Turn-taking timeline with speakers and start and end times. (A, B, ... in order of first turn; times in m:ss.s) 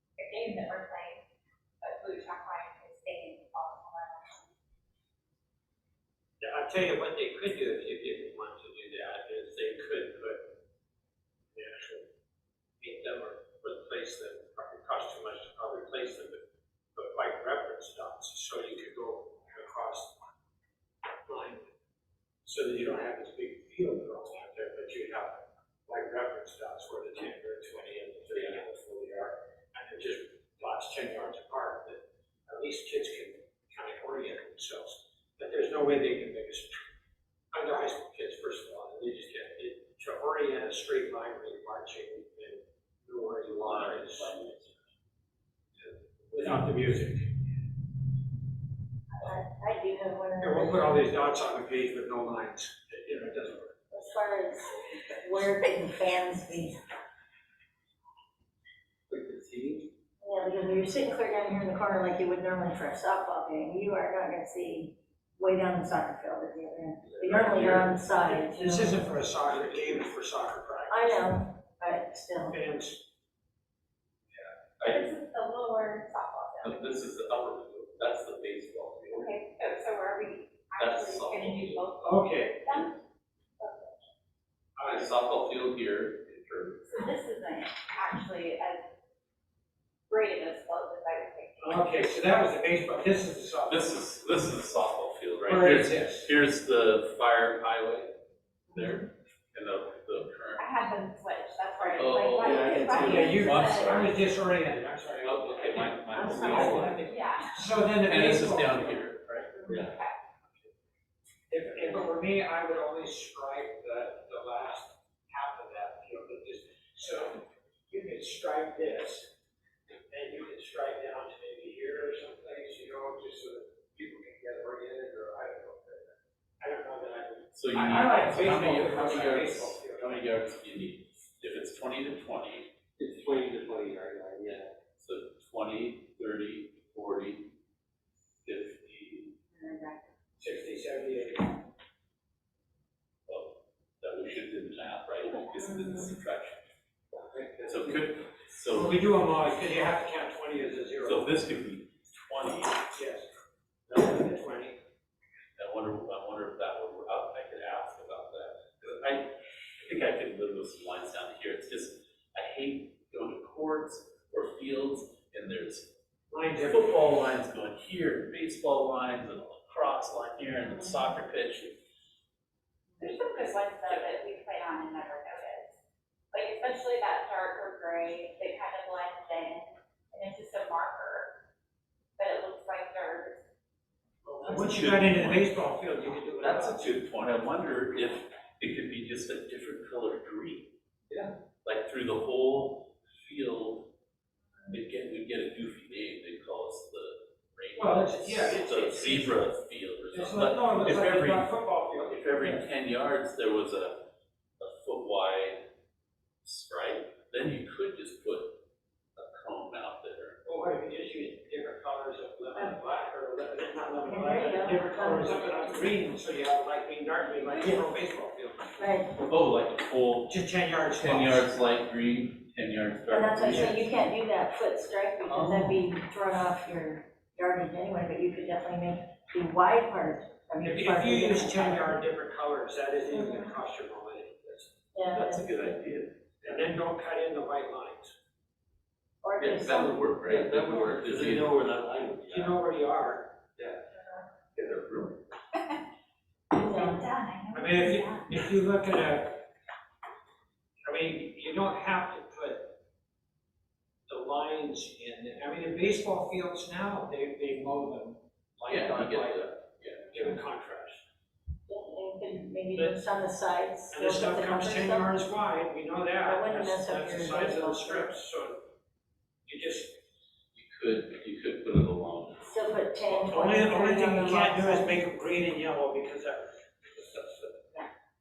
0:00.2-0:01.2 A
0:01.8-0:04.5 A
0:06.4-0:10.4 B
0:11.5-0:12.1 B
0:12.8-0:16.4 B
0:17.0-0:20.2 B
0:21.2-0:21.7 B
0:22.4-0:36.8 B
0:37.5-0:44.3 B
0:43.6-0:44.8 C
0:46.3-0:47.3 B
0:49.1-0:51.0 D
0:50.4-0:53.8 B
0:53.9-0:56.8 D
0:59.1-0:59.9 E
1:00.2-1:09.0 D
1:07.0-1:07.9 E
1:08.3-1:11.2 B
1:10.9-1:12.6 D
1:12.5-1:13.0 B
1:14.8-1:15.1 C
1:14.8-1:17.0 A
1:16.6-1:19.3 C
1:19.1-1:23.0 A
1:20.8-1:21.8 C
1:22.0-1:22.8 B
1:23.6-1:24.0 A
1:24.8-1:25.2 B
1:24.8-1:26.9 C
1:26.9-1:28.8 A
1:30.1-1:31.9 A
1:31.6-1:33.9 B
1:33.7-1:38.1 C
1:35.4-1:36.3 B
1:38.7-1:40.7 C
1:40.6-1:44.0 A
1:42.0-1:44.2 C
1:42.4-1:43.4 E
1:43.0-1:45.9 B
1:45.2-1:47.2 C
1:46.1-1:47.1 D
1:46.3-1:46.9 E
1:46.4-1:46.8 B
1:47.0-1:47.6 A
1:47.6-1:49.0 B
1:47.9-1:49.6 C
1:49.6-1:50.1 A
1:49.7-1:49.9 E
1:51.5-1:59.3 B
2:00.1-2:10.2 B
2:07.5-2:12.7 C
2:13.0-2:14.7 E
2:15.0-2:17.5 C
2:18.4-2:19.3 C
2:19.6-2:20.0 D
2:20.4-2:21.6 B
2:23.3-2:26.7 C
2:27.2-2:28.0 E
2:27.6-2:29.0 C
2:28.7-2:31.2 B
2:31.0-2:32.9 C
2:32.9-2:33.3 B
2:33.9-2:34.8 B
2:35.6-2:39.3 C
2:39.8-2:45.9 C
2:46.3-2:47.0 B
2:46.6-2:51.8 C
2:53.0-2:55.8 A
2:56.3-3:01.3 A
3:02.2-3:03.4 A
3:04.3-3:05.5 C
3:04.4-3:07.0 B
3:06.4-3:10.7 C
3:11.6-3:13.9 C
3:14.7-3:24.0 C
3:17.8-3:19.5 B
3:20.1-3:22.6 B
3:24.6-3:25.6 C
3:26.4-3:28.5 C
3:29.2-3:30.4 C
3:30.4-3:38.8 B
3:34.0-3:35.9 D
3:38.8-3:39.2 D
3:39.2-3:40.3 C
3:40.3-3:41.5 B
3:41.0-3:43.9 C
3:43.1-3:52.0 D
3:45.2-3:45.8 C
3:50.6-3:54.7 B
3:53.1-3:53.5 D
3:54.9-3:55.7 D
3:55.1-3:56.1 C
3:56.4-3:58.1 B
3:59.2-4:00.0 D
3:59.4-4:01.6 C
4:00.3-4:02.6 E
4:02.3-4:03.3 B
4:04.6-4:05.2 C
4:06.5-4:08.3 A
4:06.5-4:07.1 D
4:07.5-4:09.4 B
4:10.8-4:12.7 B
4:14.1-4:19.5 B
4:18.7-4:20.4 C
4:20.1-4:21.0 B
4:21.7-4:25.1 D
4:22.7-4:23.0 B
4:23.9-4:28.6 B
4:26.2-4:28.2 D
4:29.5-4:29.9 B
4:30.5-4:32.6 C
4:32.4-4:35.0 D
4:33.1-4:37.7 B